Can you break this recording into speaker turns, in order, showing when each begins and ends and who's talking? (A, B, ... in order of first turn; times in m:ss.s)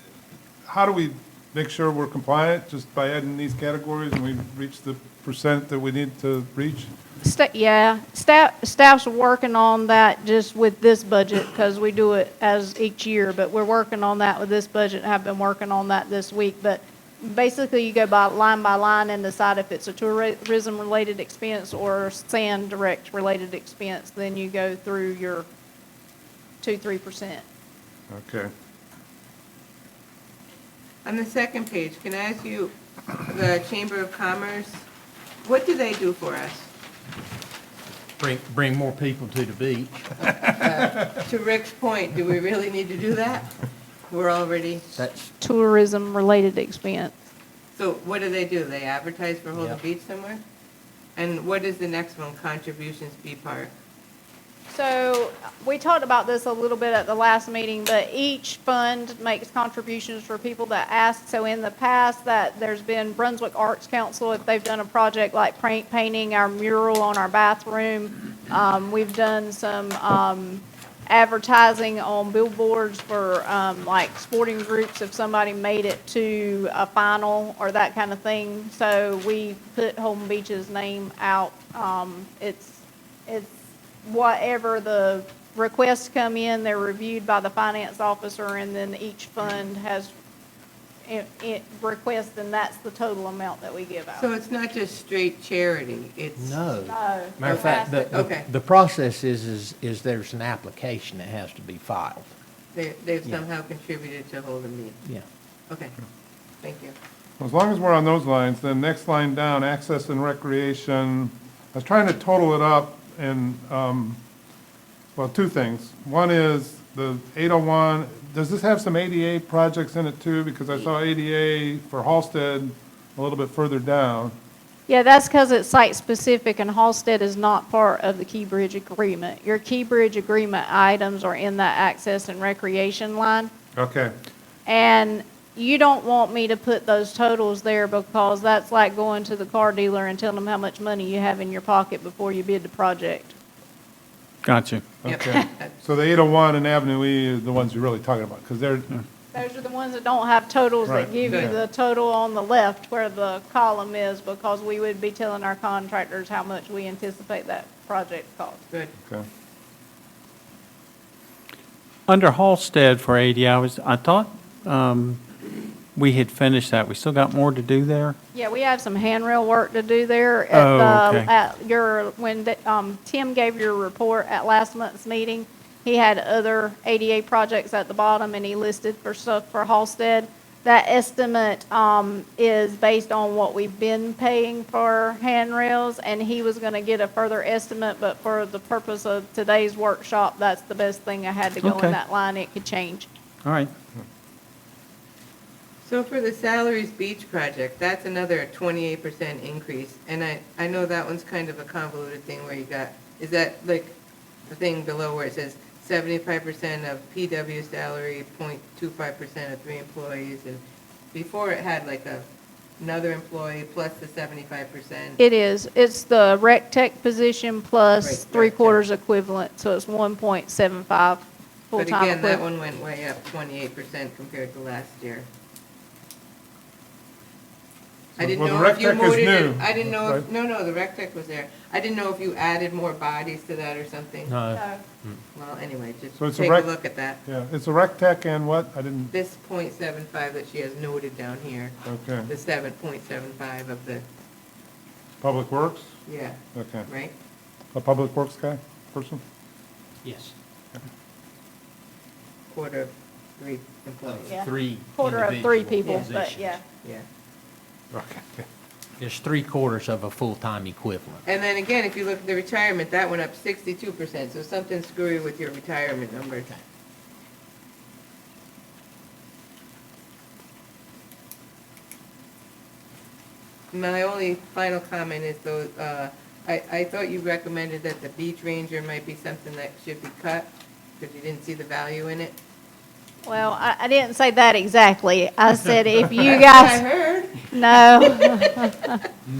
0:00.6-0:06.9 A
0:07.2-0:25.5 B
0:26.6-0:27.4 B
0:28.1-0:28.5 A
0:31.0-0:34.8 C
0:35.4-0:36.7 C
0:38.2-0:40.1 D
0:40.2-0:43.5 C
0:44.0-0:45.0 C
0:44.9-0:45.3 D
0:45.4-0:47.1 B
0:47.7-0:50.4 C
0:51.2-0:53.7 C
0:54.7-1:23.5 B
1:24.0-1:30.1 B
1:31.1-1:34.3 B
1:34.1-1:36.6 C
1:36.4-1:42.3 D
1:36.8-1:38.2 B
1:37.4-1:38.5 C
1:42.7-1:45.0 C
1:45.7-1:45.9 C
1:46.6-1:46.9 C
1:47.4-1:54.2 A
1:55.2-2:04.3 A
2:04.9-2:13.5 B
2:13.8-2:14.1 A
2:14.6-2:23.3 B
2:24.4-2:24.8 E
2:25.0-2:28.9 A
2:25.0-2:25.7 C
2:29.3-2:38.6 B
2:30.8-2:31.6 A
2:31.2-2:31.6 C
2:42.1-2:45.2 E
2:45.9-2:48.2 E
2:48.3-3:13.1 B
2:50.5-2:51.3 E
3:11.6-3:12.0 E
3:13.4-3:13.7 E
3:15.8-3:24.0 C
3:24.5-3:30.6 C
3:31.1-3:32.2 C
3:32.8-3:35.2 C
3:35.2-3:42.4 B
3:38.0-3:38.8 C
3:41.7-3:45.2 C
3:48.2-3:54.4 C
3:48.2-3:50.2 A
3:54.3-3:55.2 D
3:54.5-3:54.8 B
3:55.3-3:57.2 C
3:56.2-3:56.7 A
3:57.2-3:59.1 A
3:59.1-4:01.8 C
4:01.8-4:02.3 A
4:02.3-4:04.0 C
4:05.2-4:05.9 A
4:06.0-4:07.1 C
4:06.5-4:06.9 A
4:07.7-4:09.2 A
4:10.0-4:10.3 D
4:12.5-4:14.4 C
4:14.0-4:16.6 D
4:14.3-4:16.6 B
4:15.8-4:16.1 C
4:17.9-4:18.4 A
4:19.0-4:21.2 D
4:21.2-4:26.5 C
4:33.7-4:42.4 C
4:43.2-4:46.8 B
4:46.0-4:48.6 C
4:47.5-4:49.0 B